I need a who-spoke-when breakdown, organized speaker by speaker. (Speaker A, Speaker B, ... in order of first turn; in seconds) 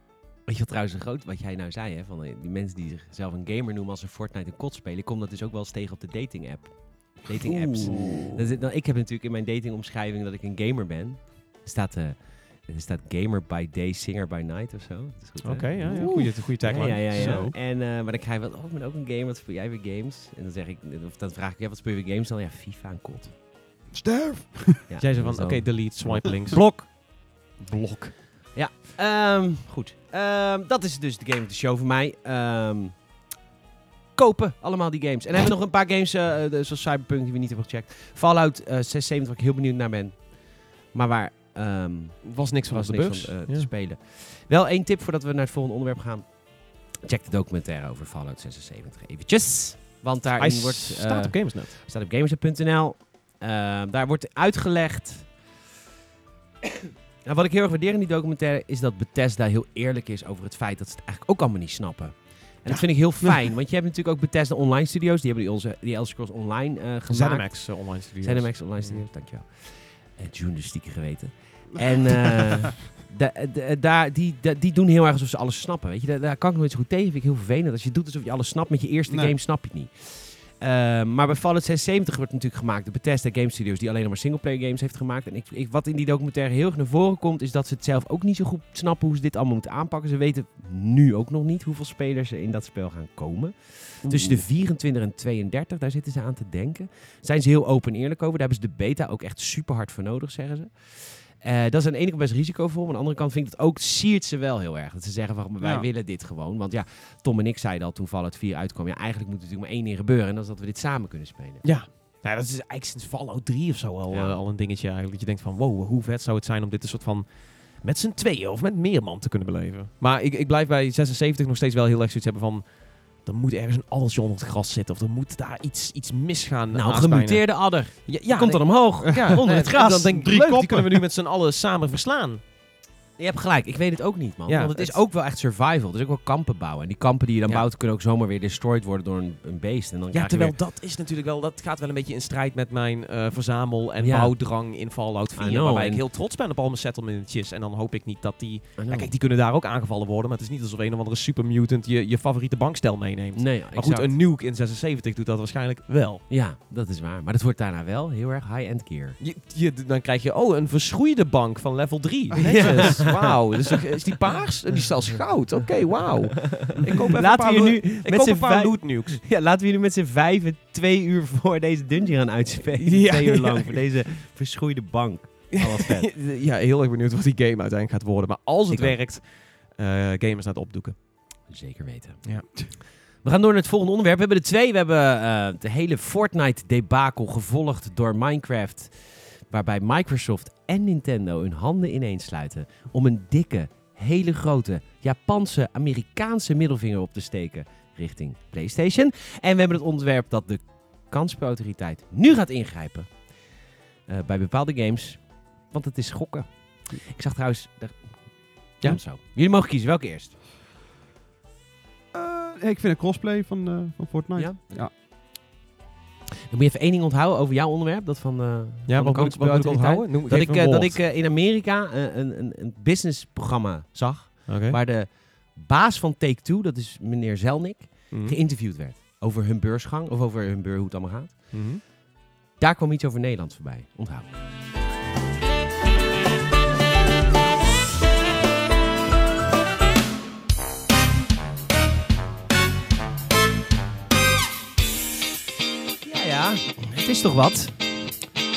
Speaker A: 0.5-23.3, 24.9-26.8, 28.5-33.2, 34.2-55.4, 57.2-111.7, 114.1-114.4, 126.7-130.3, 133.2-140.6, 144.0-144.4, 145.4-146.0, 148.8-149.1, 153.4-154.2, 156.3-159.2, 162.4-163.8, 165.1-176.1, 178.7-179.0, 181.5-210.3, 214.4-214.9, 216.5-231.9, 232.6-234.3, 246.0-248.2
Speaker B: 7.3-8.4, 15.4-17.5, 25.0-28.5, 42.2-43.7, 50.4-51.8, 62.6-63.5, 67.1-69.1, 94.0-94.5, 111.6-132.4, 134.5-135.0, 140.1-156.2, 159.2-169.2, 172.8-173.8, 175.5-181.0, 218.9-221.0, 224.5-224.8, 228.1-228.4, 231.5-231.8
Speaker C: 15.9-17.5, 23.9-24.9, 79.1-79.4, 105.6-105.9, 129.1-131.0, 212.1-214.9